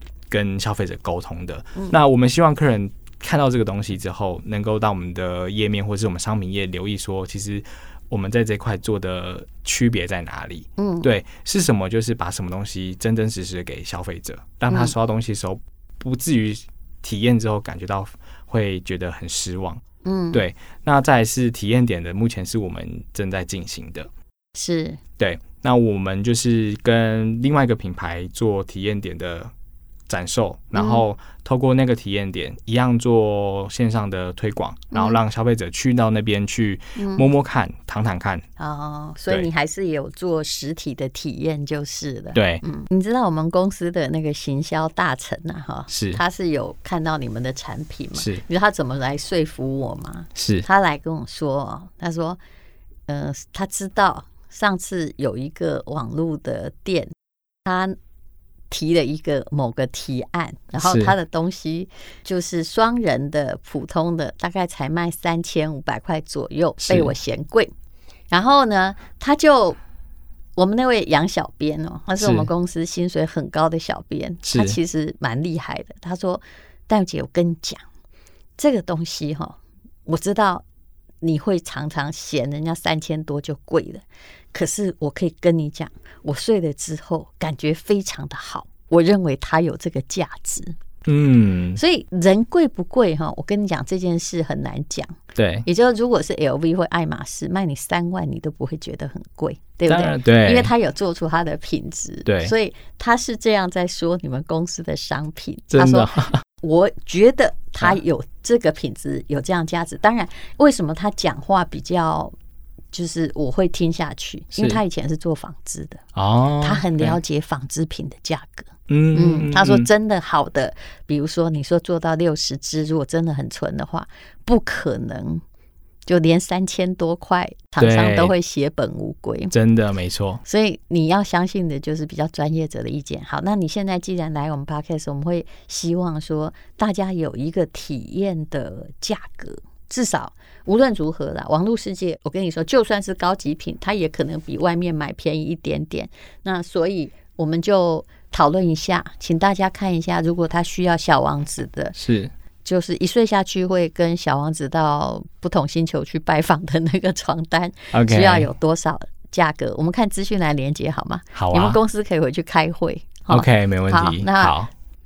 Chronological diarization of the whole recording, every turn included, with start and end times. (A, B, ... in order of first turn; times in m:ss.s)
0:00.3-0:19.8 A
0:10.8-0:11.1 B
0:20.0-0:20.4 B
0:20.3-0:24.1 A
0:24.5-0:25.0 B
0:25.2-0:29.5 A
0:30.1-0:38.4 A
0:30.7-0:31.0 B
0:34.9-0:35.2 B
0:37.0-0:37.3 B
0:38.6-0:52.4 B
0:42.3-0:42.6 A
0:45.9-0:46.2 A
0:48.2-0:48.4 A
0:50.3-0:50.6 A
0:53.1-0:57.1 B
0:57.6-0:58.0 B
0:58.7-1:07.7 B
1:00.8-1:01.1 A
1:06.8-1:07.1 A
1:08.3-1:09.8 B
1:10.6-1:17.8 B
1:12.2-1:12.5 A
1:14.4-1:14.8 A
1:18.6-1:20.6 B
1:21.2-1:30.7 B
1:31.0-1:31.8 A
1:31.8-1:52.3 B
1:35.4-1:35.6 A
1:39.9-1:40.7 A
1:42.2-1:42.5 A
1:45.7-1:46.4 A
1:52.9-1:56.0 B
1:54.5-1:54.8 A
1:56.2-1:57.2 A
1:56.6-2:05.4 B
1:58.9-1:59.9 A
2:06.0-2:09.5 B
2:07.8-2:08.3 A
2:09.5-2:10.4 A
2:10.4-2:32.0 B
2:31.9-2:32.3 A
2:32.6-2:44.6 B
2:37.9-2:38.5 A
2:41.3-2:41.8 A
2:43.3-2:44.7 A